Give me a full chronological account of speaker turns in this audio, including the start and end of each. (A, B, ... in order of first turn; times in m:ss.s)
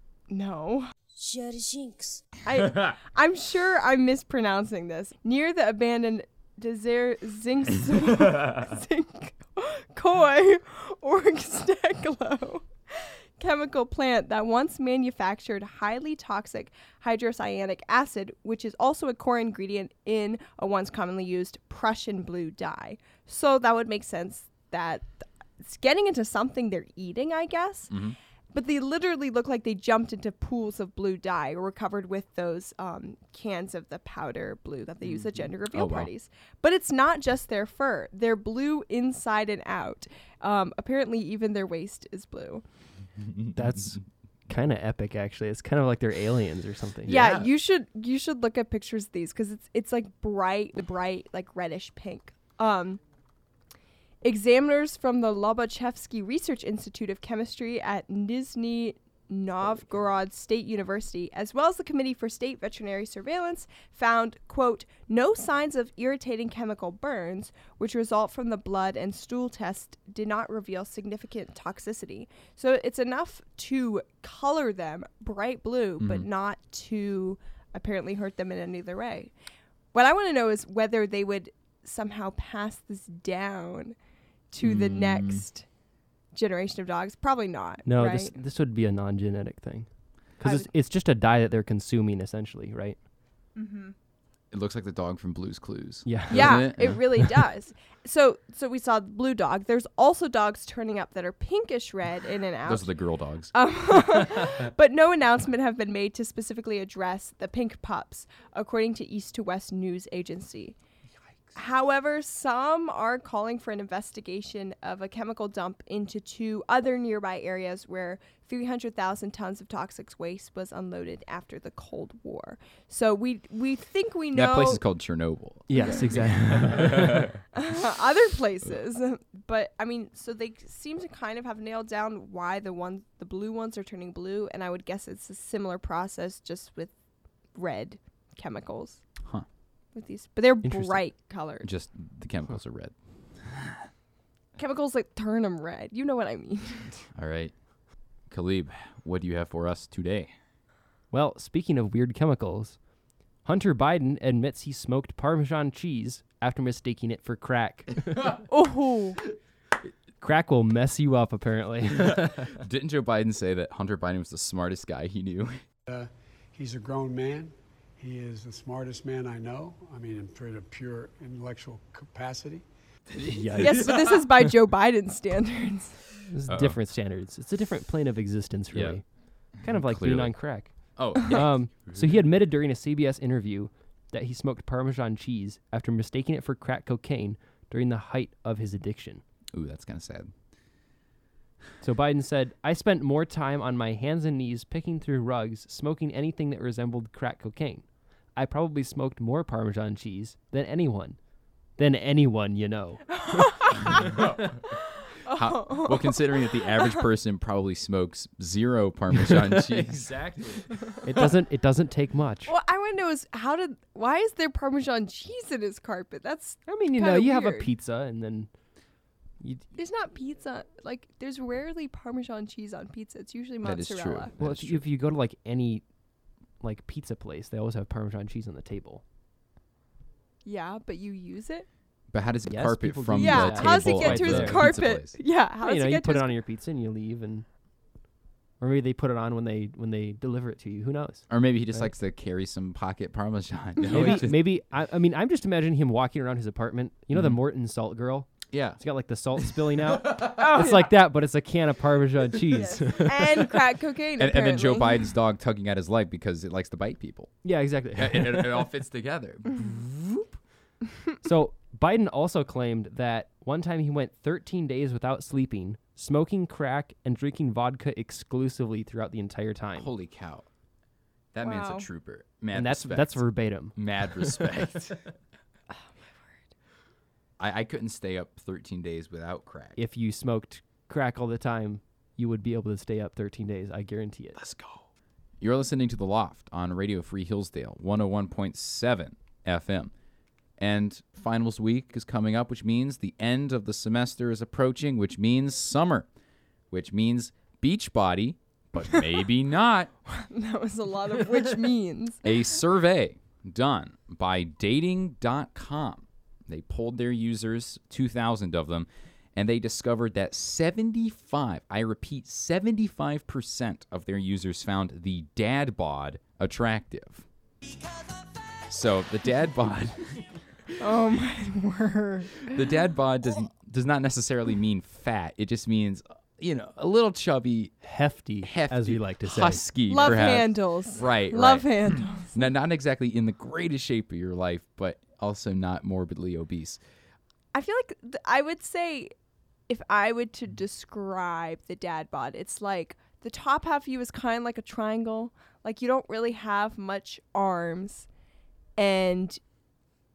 0:00.3-0:00.9 A
0:02.4-0:25.1 A
0:25.6-0:27.9 A
0:27.9-0:28.2 B
0:28.5-0:42.6 A
0:35.1-0:36.1 B
0:43.2-0:44.0 B
0:43.6-0:47.1 C
0:47.1-0:47.5 B
0:47.1-0:53.0 A
0:54.2-1:19.3 A
1:16.0-1:16.3 B
1:19.9-1:24.0 A
1:24.5-1:25.6 A
1:24.6-1:25.4 B
1:26.3-1:28.3 A
1:27.8-1:29.9 C
1:30.4-1:33.0 C
1:30.4-1:30.7 A
1:33.6-1:33.9 A
1:34.5-1:37.0 B
1:36.1-1:37.2 C
1:36.3-1:42.9 A
1:42.6-1:43.5 B
1:43.5-1:50.8 A
1:51.6-2:04.8 A
2:04.3-2:07.4 B
2:05.7-2:07.3 C
2:05.8-2:06.1 A
2:07.5-2:16.9 A
2:17.6-2:19.0 A
2:20.0-2:21.7 A
2:20.6-2:21.0 C
2:21.6-2:23.9 B
2:24.6-2:27.1 A
2:27.2-2:27.5 B
2:28.3-2:30.3 B
2:31.1-2:32.8 C
2:33.4-2:38.4 C
2:38.5-2:39.2 A
2:40.2-2:42.5 C
2:42.0-2:45.6 B
2:45.9-2:52.7 D
2:53.1-2:54.3 B
2:53.2-2:53.9 C
2:53.6-2:56.0 A
2:56.3-2:59.0 C
2:56.5-2:56.8 B
2:58.7-2:59.0 B
2:59.6-3:00.4 B
2:59.6-3:09.2 C
3:01.0-3:02.2 B
3:09.5-3:10.3 B
3:11.8-3:21.2 C
3:21.8-3:23.5 C
3:23.1-3:27.0 A
3:24.0-3:24.7 B
3:25.3-3:30.7 B
3:29.3-3:32.5 C
3:32.5-3:37.7 A
3:36.7-3:38.5 C
3:39.8-3:44.3 A
3:43.6-3:44.8 B
3:44.4-3:45.8 C
3:46.6-3:49.0 C
3:50.4-3:51.7 A
3:52.1-3:55.1 B
3:52.5-3:54.8 C
3:53.2-3:56.3 A
3:55.6-3:57.5 C
3:58.6-4:01.9 C
4:01.3-4:04.4 B
4:03.9-4:13.3 C
4:08.5-4:08.8 B
4:10.2-4:10.9 A
4:12.5-4:15.1 A
4:14.2-4:17.3 B
4:17.4-4:18.7 C
4:17.9-4:20.4 B
4:21.2-4:29.9 C
4:29.8-4:30.5 B
4:31.3-4:35.0 B
4:31.4-4:31.9 A
4:32.5-4:34.3 C
4:35.7-4:36.4 A
4:37.4-4:39.8 B
4:39.8-4:44.4 C
4:44.4-4:44.9 B
4:45.4-4:49.9 B
4:50.6-4:56.1 B
4:56.7-4:59.9 B
5:00.1-5:02.3 A
5:02.2-5:17.3 B
5:18.7-5:20.2 B
5:20.8-5:22.6 A
5:22.5-5:27.8 B
5:27.8-5:29.7 C
5:28.4-5:36.8 B
5:29.9-5:32.4 A
5:37.5-5:39.1 A
5:39.7-5:48.1 A
5:48.8-5:49.4 A